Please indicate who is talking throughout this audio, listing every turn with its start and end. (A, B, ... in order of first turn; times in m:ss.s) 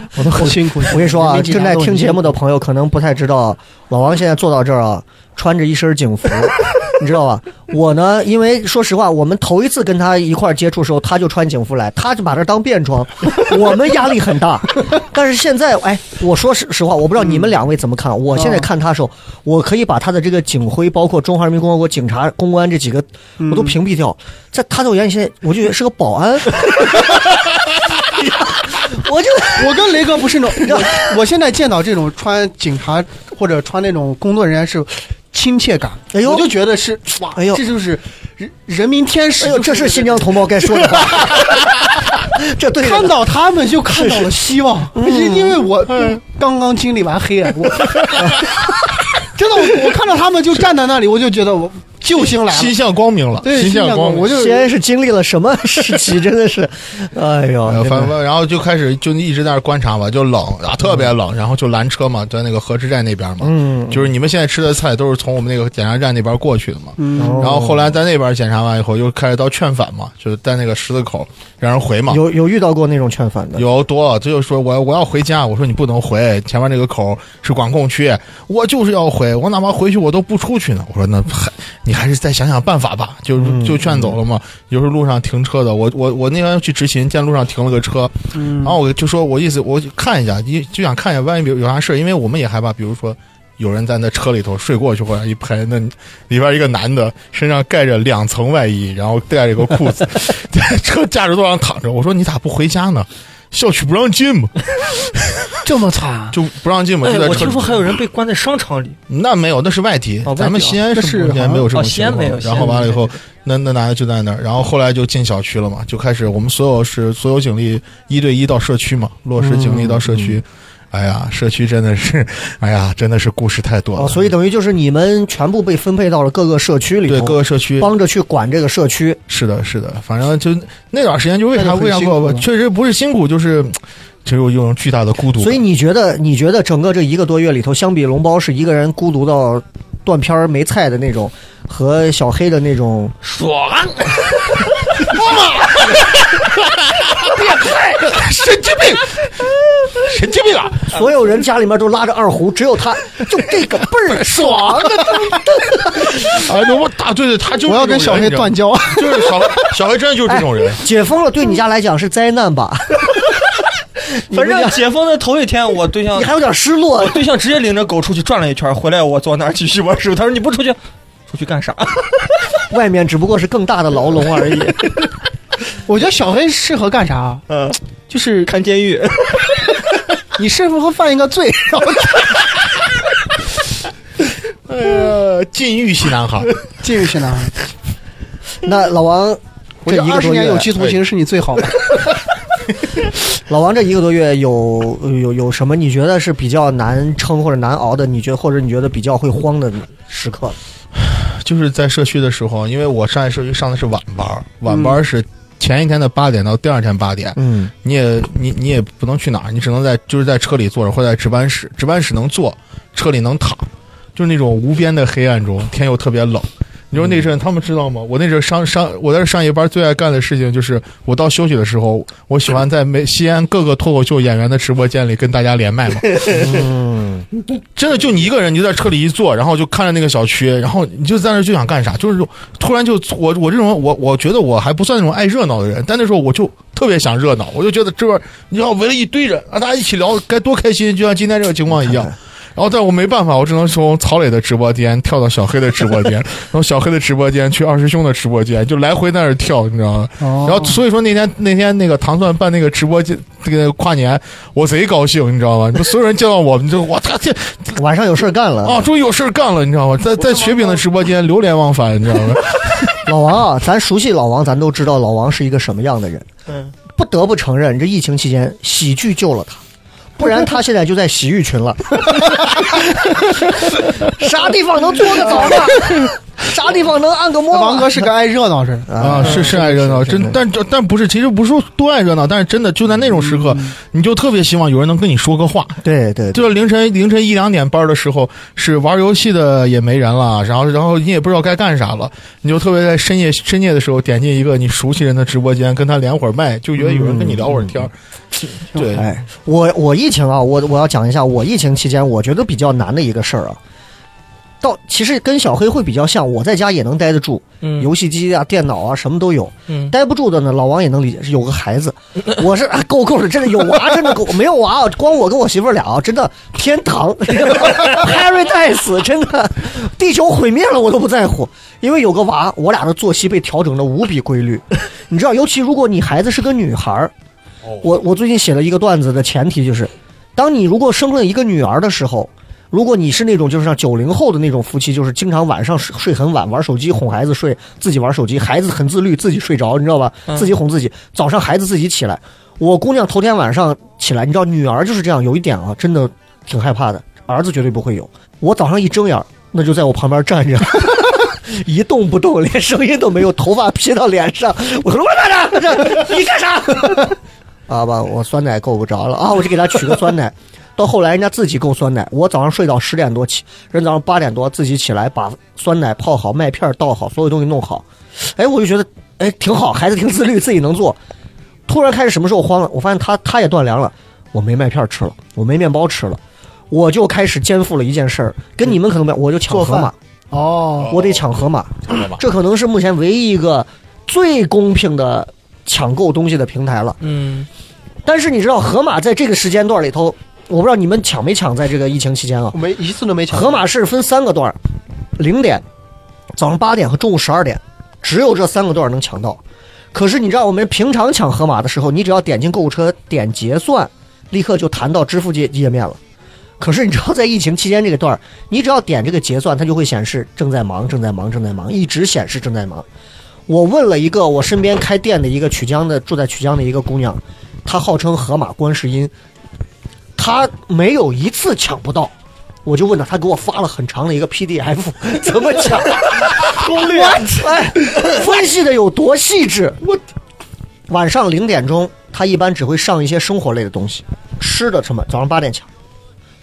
0:00.2-0:00.5 A
0:00.2-0:02.4 B
0:00.4-0:27.3 C
0:17.2-0:17.5 B
0:18.3-0:18.7 B
0:23.4-0:23.8 B
0:28.1-0:29.9 C
0:29.5-0:41.4 B
0:30.6-0:31.1 C
0:36.1-0:36.5 C
0:37.4-0:37.6 C
0:39.4-0:43.2 C
0:42.8-0:48.6 B
0:43.9-0:44.4 C
0:44.9-0:45.6 C
0:49.2-0:52.8 B
0:52.2-0:54.3 A
0:53.4-0:54.7 B
0:54.3-0:58.1 C
0:57.7-1:12.2 A
1:03.4-1:04.1 C
1:07.0-1:07.7 B
1:07.2-1:07.9 C
1:12.1-1:13.6 C
1:13.6-1:45.6 A
1:23.4-1:24.1 C
1:28.3-1:28.8 B
1:45.6-1:46.4 B
1:46.3-1:47.8 A
1:47.0-1:49.0 D
1:49.1-2:04.3 A
1:50.2-1:50.8 D
1:50.9-1:51.7 B
1:51.7-1:53.1 D
1:52.5-1:52.8 B
1:59.5-1:59.8 B
1:59.6-2:00.3 C
2:04.0-2:09.2 C
2:07.1-2:07.9 A
2:09.3-2:15.6 A
2:11.5-2:12.4 B
2:15.4-2:23.2 C
2:23.2-2:25.1 D
2:25.1-2:26.0 A
2:27.0-2:27.3 A
2:28.1-2:29.0 B
2:30.0-2:30.9 A
2:30.9-2:36.1 C
2:34.7-2:35.1 A
2:36.1-2:40.8 A
2:37.6-2:39.8 B
2:40.3-2:43.2 C
2:44.0-2:46.4 D
2:44.3-2:44.8 C
2:46.1-2:47.2 C
2:47.0-2:52.2 D
2:52.7-2:54.9 C
2:55.9-2:57.4 B
2:57.5-2:57.8 D
2:58.1-2:58.5 B
2:58.4-2:59.6 D
3:00.4-3:02.4 B
3:04.7-3:06.6 A
3:06.8-3:07.5 B
3:08.6-3:10.7 C
3:09.8-3:12.0 B
3:13.4-3:20.6 C
3:21.0-3:46.6 A
3:24.7-3:25.0 B
3:27.4-3:27.7 C
3:46.3-3:47.2 C
3:47.7-4:17.8 A
4:01.8-4:02.1 C
4:10.2-4:10.8 B
4:17.8-4:18.9 C
4:18.6-4:23.0 A
4:20.2-4:20.8 B
4:23.0-4:26.3 C
4:26.9-4:29.6 C
4:30.2-4:38.1 C
4:37.5-4:39.5 B
4:38.9-4:40.4 C
4:39.0-4:45.8 A
4:45.8-4:46.4 C
4:46.3-4:57.9 A
4:56.8-4:57.7 C
4:58.7-4:59.0 A
4:58.8-5:03.6 C
5:04.6-5:27.1 C
5:07.6-5:07.9 D
5:09.7-5:09.9 D
5:27.8-5:57.2 C
5:57.7-6:11.0 C
6:11.7-6:19.9 C
6:19.5-6:21.0 B
6:20.9-6:21.3 A
6:20.9-6:27.0 C
6:21.9-6:22.2 A
6:27.0-6:27.5 D
6:28.0-6:32.6 C
6:32.5-6:33.6 B
6:33.3-6:34.6 C
6:35.2-6:35.6 C
6:36.4-6:39.4 C
6:39.9-6:46.0 C
6:46.6-6:52.8 C
6:53.5-6:59.1 C
7:00.2-7:02.1 C
7:02.6-7:09.9 C
7:06.7-7:07.5 D
7:10.9-7:15.7 C